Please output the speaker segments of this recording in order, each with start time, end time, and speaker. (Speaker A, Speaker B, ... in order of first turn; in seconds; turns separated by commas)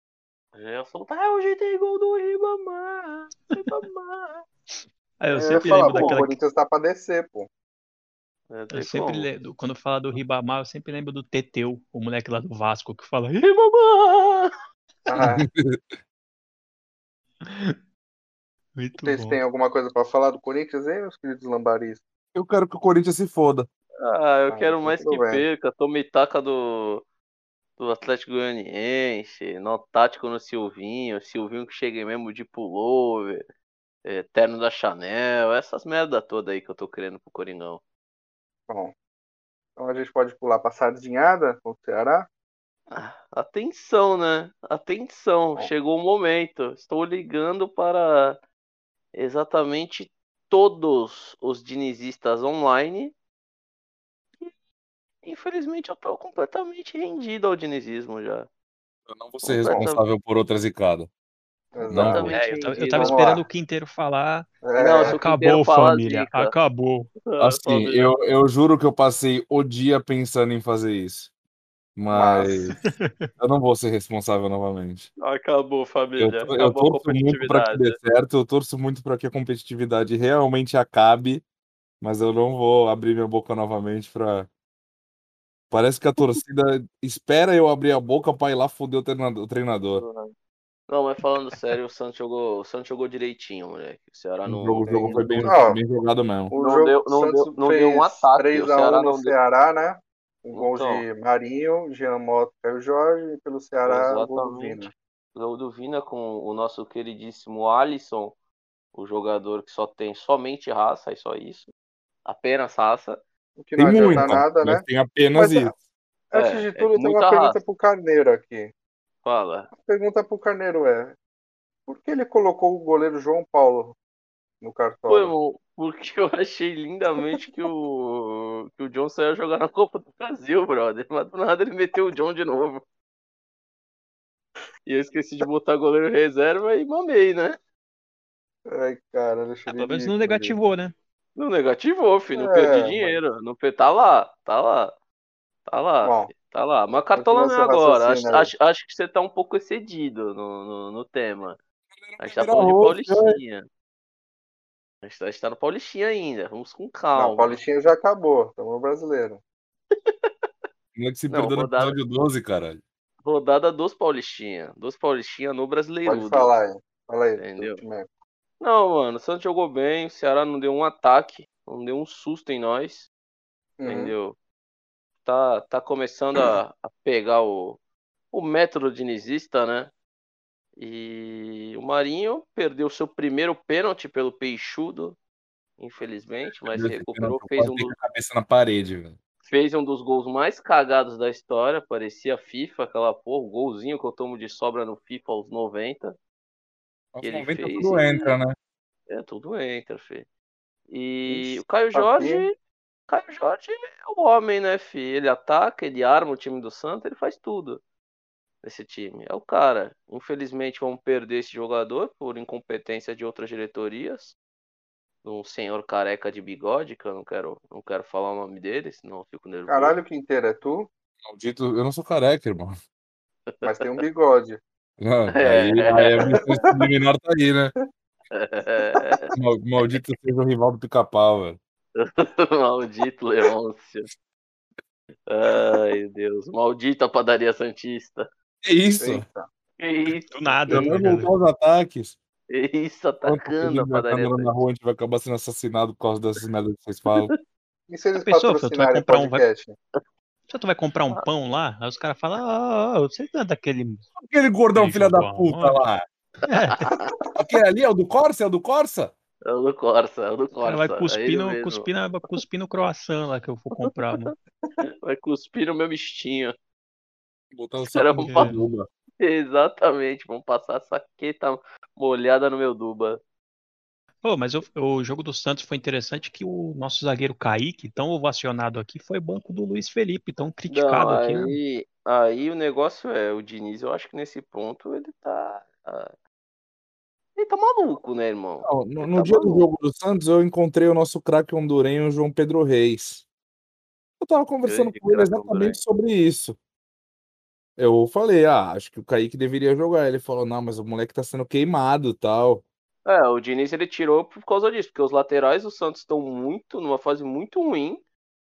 Speaker A: 0.5-4.5, Speaker B: 5.2-6.4, Speaker C: 5.3-7.5, Speaker A: 5.7-6.2, Speaker A: 8.5-9.3, Speaker B: 8.7-13.4, Speaker A: 13.4-14.5, Speaker C: 15.1-15.4, Speaker D: 15.2-16.0, Speaker B: 17.4-17.8, Speaker B: 18.8-19.4, Speaker C: 19.0-22.0, Speaker D: 22.3-23.7, Speaker A: 24.0-27.0, Speaker C: 24.5-25.4, Speaker A: 27.8-33.5, Speaker A: 34.0-37.8, Speaker C: 39.8-42.3, Speaker A: 42.9-48.4, Speaker A: 49.1-53.1, Speaker A: 55.2-58.5, Speaker D: 59.1-61.1, Speaker A: 59.4-60.0, Speaker C: 61.7-62.4, Speaker A: 61.8-63.3, Speaker D: 61.9-62.3, Speaker B: 62.3-67.1, Speaker C: 62.9-63.4, Speaker C: 64.6-65.2, Speaker A: 64.8-66.5, Speaker A: 67.2-68.1, Speaker D: 67.4-71.3, Speaker D: 72.0-72.8, Speaker C: 72.1-72.6, Speaker B: 72.8-73.3, Speaker D: 73.4-75.1, Speaker A: 75.2-78.0, Speaker D: 76.2-81.4, Speaker D: 82.0-84.5, Speaker D: 85.7-90.0, Speaker A: 90.0-90.3, Speaker A: 90.9-95.5, Speaker D: 94.4-96.5, Speaker C: 94.8-95.8, Speaker C: 96.5-104.9, Speaker A: 96.5-99.3, Speaker A: 100.5-101.0, Speaker A: 103.8-108.3, Speaker A: 108.9-111.7, Speaker A: 112.2-113.2, Speaker C: 113.6-114.8, Speaker D: 113.8-115.8, Speaker A: 114.1-114.4, Speaker C: 115.3-115.7, Speaker C: 116.3-118.7, Speaker A: 116.3-117.6, Speaker A: 119.2-119.7, Speaker C: 119.8-121.2, Speaker C: 121.9-124.0, Speaker C: 124.6-125.3, Speaker A: 125.1-132.8, Speaker A: 134.9-137.6, Speaker C: 138.7-140.6, Speaker B: 139.7-140.9, Speaker A: 141.3-145.0, Speaker C: 142.3-143.2, Speaker A: 145.7-151.6, Speaker C: 146.0-146.3, Speaker C: 147.1-148.5, Speaker D: 152.0-153.4, Speaker A: 152.2-153.7, Speaker A: 155.0-157.6, Speaker C: 157.1-159.4, Speaker A: 159.9-160.3, Speaker D: 160.9-162.8, Speaker A: 161.3-162.0, Speaker A: 163.2-166.5, Speaker C: 166.0-168.1, Speaker A: 167.4-167.8, Speaker A: 168.6-173.1, Speaker C: 173.8-174.1, Speaker A: 173.9-174.3, Speaker A: 175.2-177.8, Speaker A: 178.3-179.9, Speaker A: 180.8-185.2, Speaker A: 185.8-187.9, Speaker D: 186.7-189.2, Speaker A: 189.4-196.2, Speaker D: 197.1-198.5, Speaker A: 197.2-198.3, Speaker A: 199.1-200.3, Speaker A: 200.9-202.5, Speaker C: 201.3-202.4, Speaker A: 203.1-207.8, Speaker A: 208.6-214.3, Speaker A: 215.2-220.0, Speaker C: 219.7-220.9, Speaker D: 221.2-222.8, Speaker A: 223.5-224.0, Speaker C: 223.6-224.6, Speaker D: 225.0-227.7, Speaker A: 225.3-226.4, Speaker C: 226.3-226.7, Speaker A: 228.3-229.3, Speaker D: 229.3-231.6, Speaker A: 231.9-234.1, Speaker A: 235.3-238.3, Speaker D: 238.6-239.2, Speaker C: 239.0-239.5, Speaker A: 239.8-240.9, Speaker B: 240.3-241.3, Speaker D: 240.7-242.2, Speaker A: 242.5-244.6, Speaker D: 243.2-247.3, Speaker C: 247.9-249.8, Speaker B: 248.2-249.4, Speaker B: 250.5-254.1, Speaker D: 254.2-256.1, Speaker B: 254.7-255.8, Speaker B: 256.4-256.9, Speaker A: 256.8-257.1, Speaker D: 257.4-259.1, Speaker A: 259.4-261.9, Speaker B: 260.6-264.3, Speaker A: 263.8-264.3, Speaker A: 264.8-266.5, Speaker D: 267.5-268.9, Speaker A: 267.8-268.6, Speaker B: 268.2-268.6, Speaker A: 269.2-273.2, Speaker B: 274.2-281.6, Speaker A: 280.7-286.1, Speaker A: 287.4-289.6, Speaker D: 288.6-293.2, Speaker D: 294.2-296.6, Speaker A: 294.6-295.8, Speaker D: 297.8-302.6, Speaker A: 303.0-308.0